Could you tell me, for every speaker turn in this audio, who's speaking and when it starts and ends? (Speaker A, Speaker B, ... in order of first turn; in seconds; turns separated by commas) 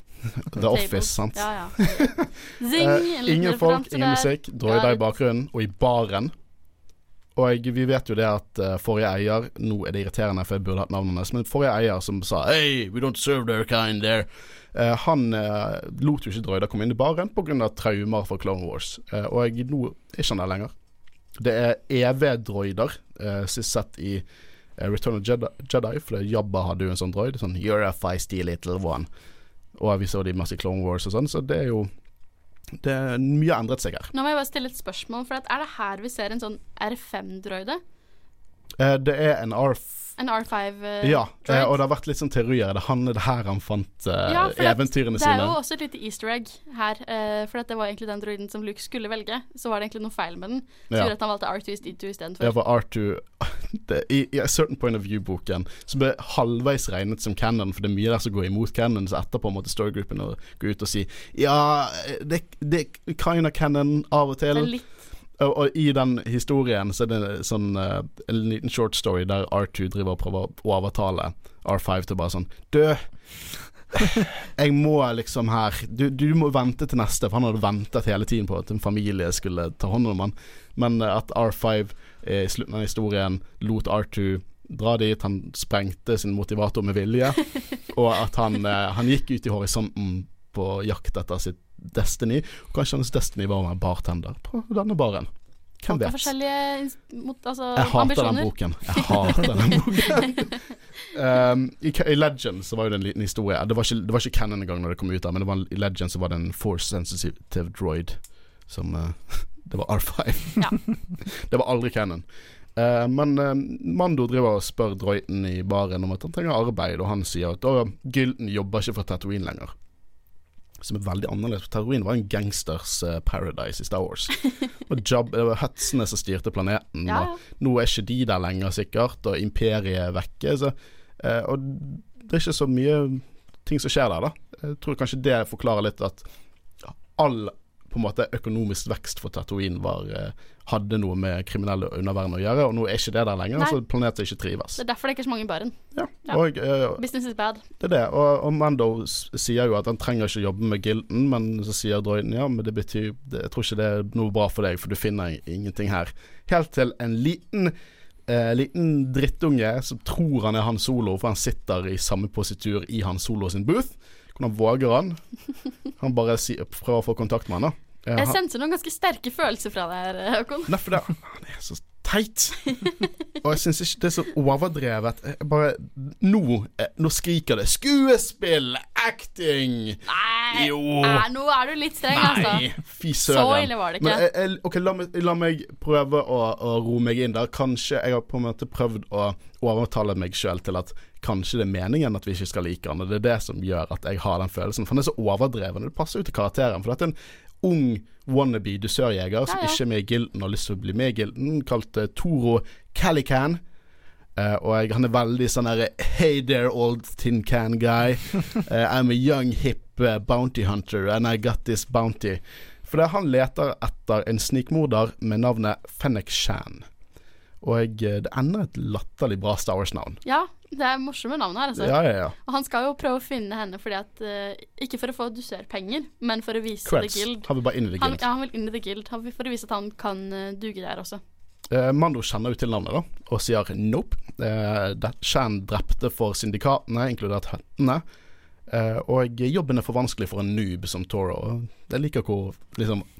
Speaker A: 0.2-6.3, Speaker B: 0.6-5.0, Speaker A: 7.4-20.7, Speaker A: 21.4-24.2, Speaker A: 24.8-29.1, Speaker A: 29.8-31.9, Speaker A: 32.8-34.1, Speaker B: 34.1-37.8, Speaker A: 38.8-40.1, Speaker B: 40.2-41.8, Speaker A: 41.0-45.6, Speaker B: 44.2-52.5, Speaker A: 52.4-64.7, Speaker B: 64.5-64.9, Speaker A: 65.4-73.1, Speaker A: 73.9-95.3, Speaker A: 95.8-96.3, Speaker B: 95.9-100.6, Speaker A: 97.8-100.5, Speaker A: 101.1-119.7, Speaker A: 120.8-136.3, Speaker B: 127.0-127.4, Speaker A: 136.8-144.8, Speaker B: 144.8-146.4, Speaker A: 145.9-147.0, Speaker B: 147.0-147.6, Speaker A: 147.8-157.7, Speaker A: 158.3-165.2, Speaker A: 166.0-168.4, Speaker B: 168.2-170.8, Speaker A: 170.7-172.6, Speaker B: 172.7-173.1, Speaker A: 173.4-181.3, Speaker B: 180.0-182.7, Speaker A: 182.1-203.6, Speaker B: 183.2-184.2, Speaker B: 199.5-199.8, Speaker A: 204.4-216.9, Speaker A: 217.6-220.2, Speaker B: 220.2-231.2, Speaker A: 221.8-222.3, Speaker A: 226.8-228.2, Speaker A: 231.7-238.0, Speaker A: 238.7-243.1